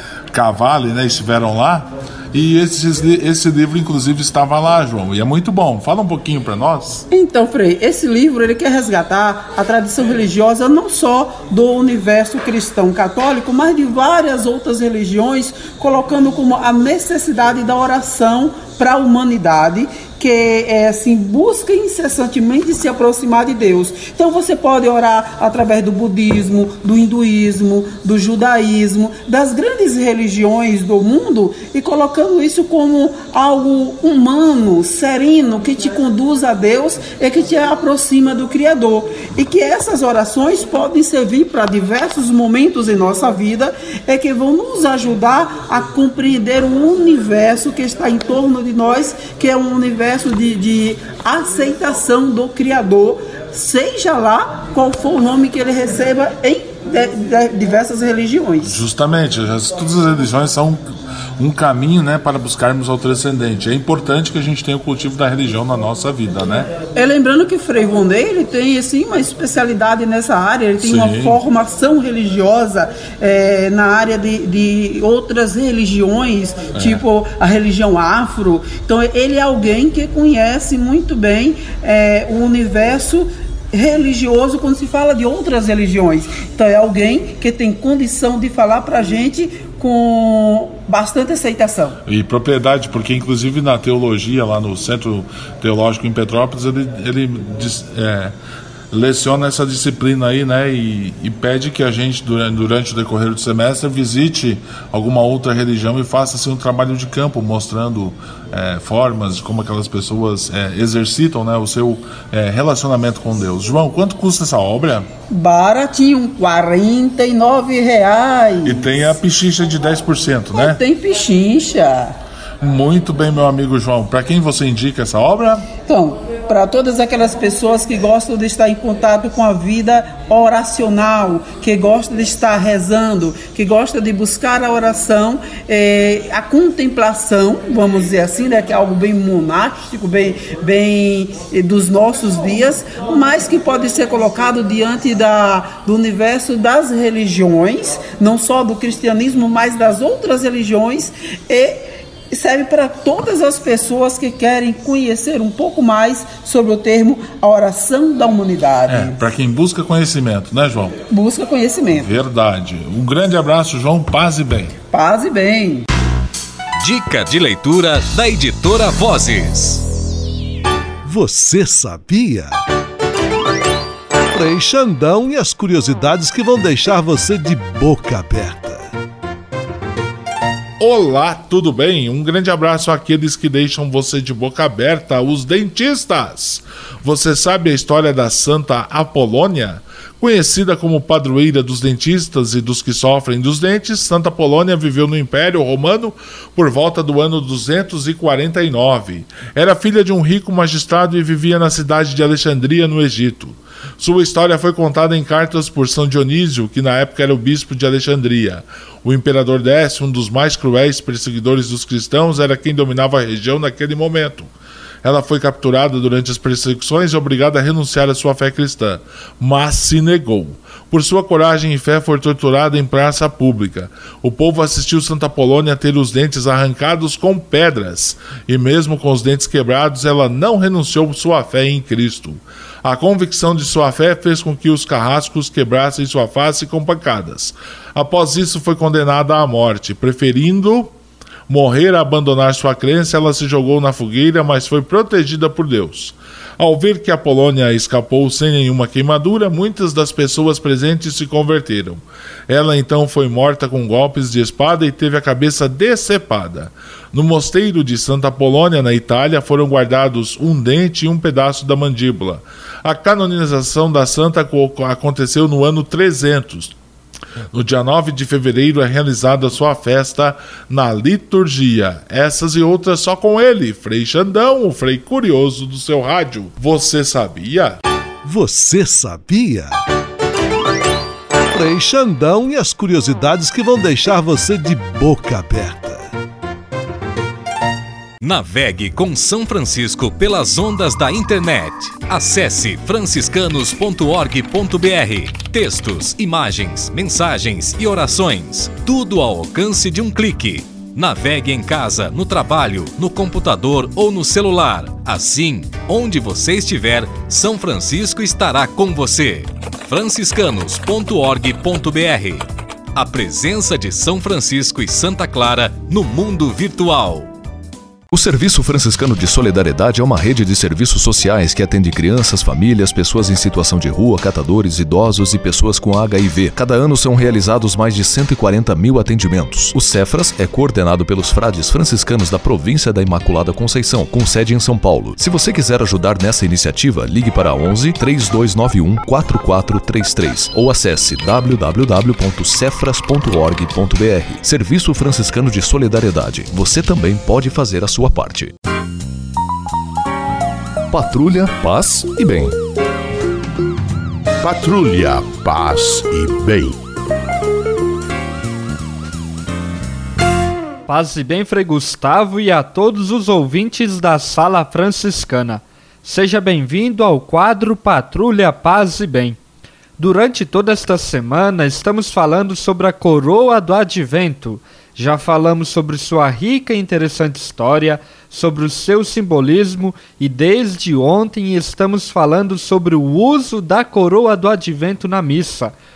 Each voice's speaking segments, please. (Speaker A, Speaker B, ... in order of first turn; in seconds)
Speaker A: 0.3-7.0, 58.6-60.8, 61.4-66.7, 70.8-71.4, 76.7-77.0, 92.1-98.3, 98.9-115.1, 118.6-120.8, 122.6-125.7, 158.9-160.9, 161.9-164.7, 180.8-214.5, 215.0-240.9, 241.5-266.7, 267.5-277.8
Speaker B: 7.1-58.8, 66.9-92.0, 115.3-118.8, 120.5-122.1, 125.8-159.2, 161.1-162.1, 164.9-165.8
Speaker C: 166.8-169.8, 288.2-317.3
Speaker D: 171.0-172.6, 174.3-178.8, 278.2-279.8, 281.5-286.1
Speaker E: 318.1-348.5, 350.9-352.6
Speaker F: 354.4-356.8
Speaker G: 360.9-369.4, 370.0-385.7